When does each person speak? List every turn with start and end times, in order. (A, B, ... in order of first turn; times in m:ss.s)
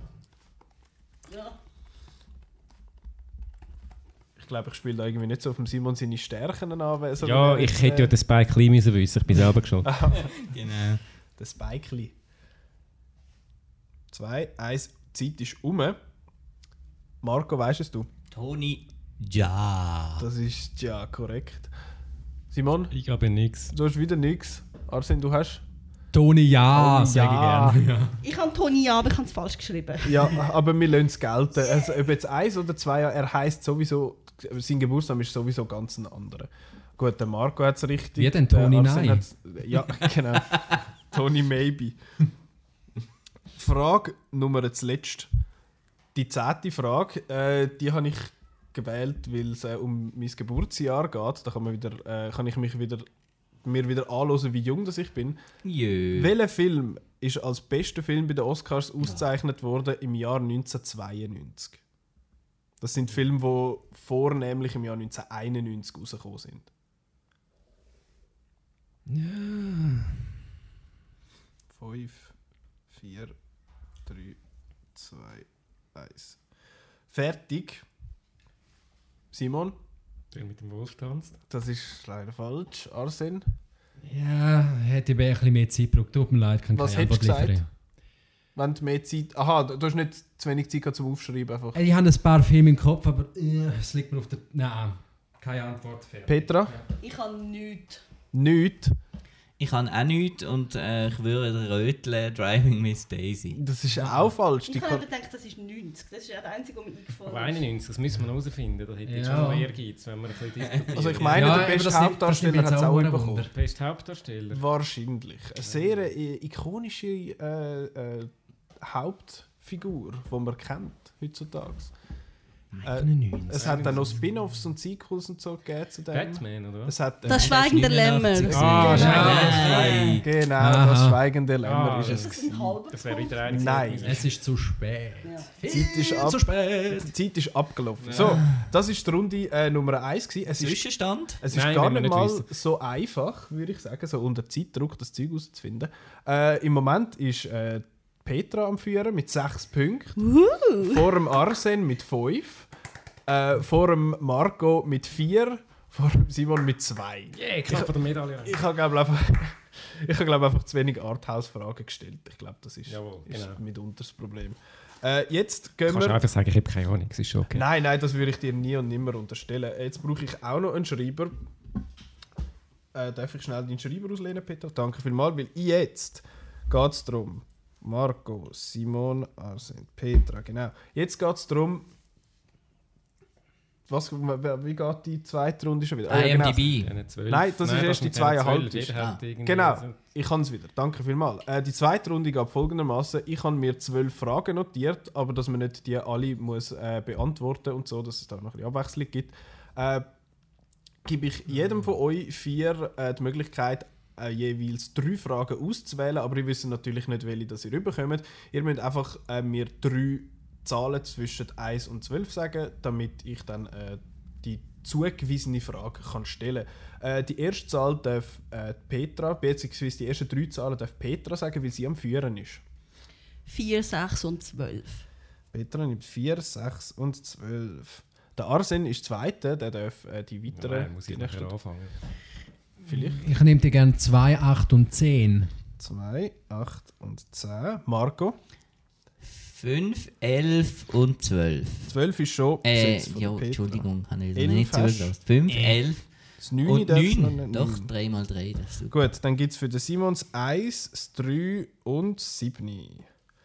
0:01.3-0:01.6 A
0:04.4-0:08.1 B
0:07.2-0:09.9 C
0:09.8-0:10.3 B
0:10.2-0:11.0 D
0:11.4-0:12.1 B
0:14.1-0:16.0 B
0:17.2-0:18.1 B
0:18.3-0:20.3 D
0:20.2-0:21.7 B
0:22.5-0:22.9 B
0:22.9-0:23.7 C
0:23.7-0:25.6 B
0:26.1-0:28.2 E
0:26.7-0:27.8 B
0:28.2-0:30.4 A
0:30.0-0:42.0 B
0:31.6-0:32.0 A
0:38.2-0:39.3 E
0:43.6-0:45.3 B
0:46.2-0:53.1 B
0:53.6-0:55.4 B
0:55.6-0:56.3 D
0:56.2-1:01.8 B
1:02.8-1:06.7 B
1:09.1-1:10.2 E
1:11.7-1:12.3 B
1:12.9-1:13.4 B
1:14.1-1:14.4 B
1:15.0-1:16.4 B
1:17.1-1:17.8 B
1:19.3-1:19.8 B
1:20.3-1:21.4 C
1:21.5-1:23.4 B
1:24.0-1:27.7 E
1:26.7-1:27.6 B
1:28.6-1:31.8 B
1:31.7-1:36.8 E
1:36.3-1:36.7 B
1:37.0-1:38.0 A
1:38.3-1:39.0 B
1:39.6-1:43.6 D
1:43.6-1:45.0 B
1:44.0-1:44.3 E
1:44.7-1:47.6 A
1:47.3-1:51.8 C
1:49.0-1:49.7 E
1:50.6-1:51.2 D
1:50.9-1:53.5 B
1:51.3-1:53.5 E
1:53.5-1:54.7 C
1:54.5-2:01.9 B
1:55.6-1:56.1 C
2:02.7-2:04.2 E
2:02.8-2:07.6 B
2:03.5-2:04.1 C
2:06.1-2:07.0 C
2:07.3-2:09.1 A
2:07.3-2:10.2 D
2:08.5-2:10.2 C
2:08.5-2:12.8 B
2:08.6-2:10.0 E
2:10.6-2:11.2 E
2:11.6-2:14.3 C
2:12.1-2:13.7 A
2:13.5-2:14.2 B
2:14.0-2:17.1 E
2:15.2-2:15.5 A
2:15.7-2:20.9 B
2:18.0-2:18.5 C
2:20.6-2:21.4 D
2:21.4-2:30.2 B
2:21.5-2:22.5 C
2:30.2-2:31.0 A
2:30.8-2:32.7 B
2:33.3-2:46.2 B
2:37.3-2:38.6 C
2:42.9-2:43.6 C
2:45.9-2:47.7 C
2:47.5-2:51.4 B
2:52.9-3:01.9 B
3:03.9-3:20.1 B
3:06.1-3:06.9 D
3:06.8-3:10.0 C
3:21.0-3:42.6 B
3:43.5-3:45.0 A
3:45.5-3:51.5 B
3:50.5-3:52.0 C
3:52.8-3:53.3 B
3:52.9-3:55.5 E
3:55.8-3:58.4 B
3:59.2-4:01.9 D
4:01.9-4:05.2 B
4:02.6-4:06.0 D
4:05.5-4:05.8 E
4:06.4-4:07.9 B
4:06.6-4:09.1 D
4:08.9-4:13.1 B